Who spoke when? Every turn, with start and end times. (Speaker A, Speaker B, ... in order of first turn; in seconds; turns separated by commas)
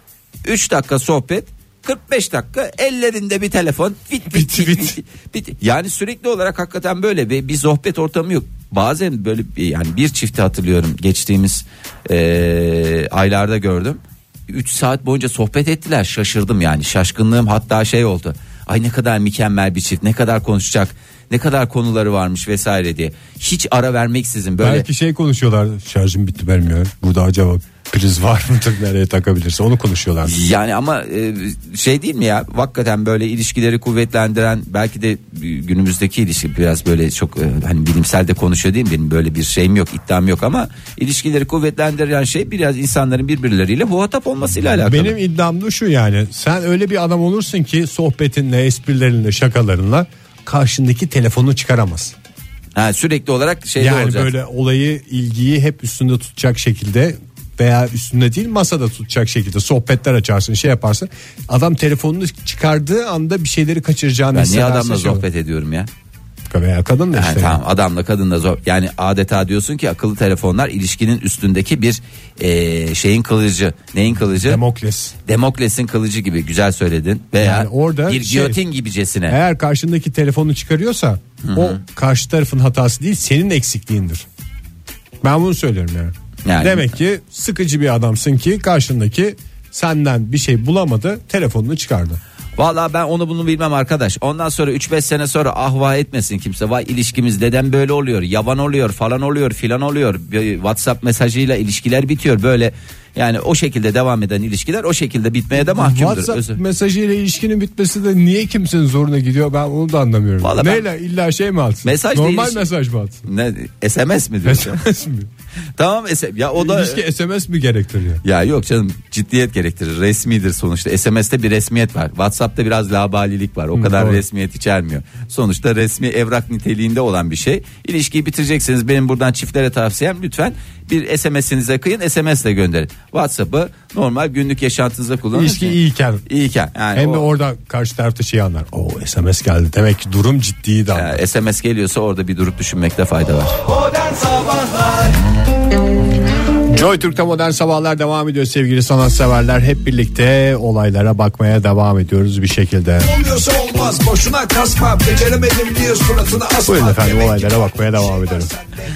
Speaker A: 0.4-24.8, Speaker B: 4.3-5.0, Speaker B: 24.6-30.3, Speaker A: 30.2-45.2, Speaker B: 44.8-52.1, Speaker A: 52.8-54.3, Speaker B: 53.8-65.2, Speaker A: 64.3-65.9, Speaker B: 66.5-67.6, Speaker A: 67.1-74.6, Speaker B: 74.4-75.1, Speaker A: 75.2-79.4, Speaker B: 77.4-78.6, Speaker B: 79.3-84.2, Speaker A: 81.4-81.8, Speaker B: 85.2-92.2, Speaker A: 86.4-86.9, Speaker A: 92.6-106.6, Speaker B: 105.7-113.2, Speaker A: 110.4-110.8, Speaker A: 111.8-112.7, Speaker A: 113.2-114.8, Speaker B: 114.4-115.3, Speaker A: 115.8-117.0, Speaker B: 116.5-118.2, Speaker A: 118.2-137.3, Speaker B: 123.7-124.2, Speaker B: 135.3-136.2, Speaker B: 136.9-141.2, Speaker A: 140.9-143.6, Speaker C: 143.6-145.1, Speaker B: 146.7-153.1, Speaker C: 153.0-157.6, Speaker B: 156.7-158.5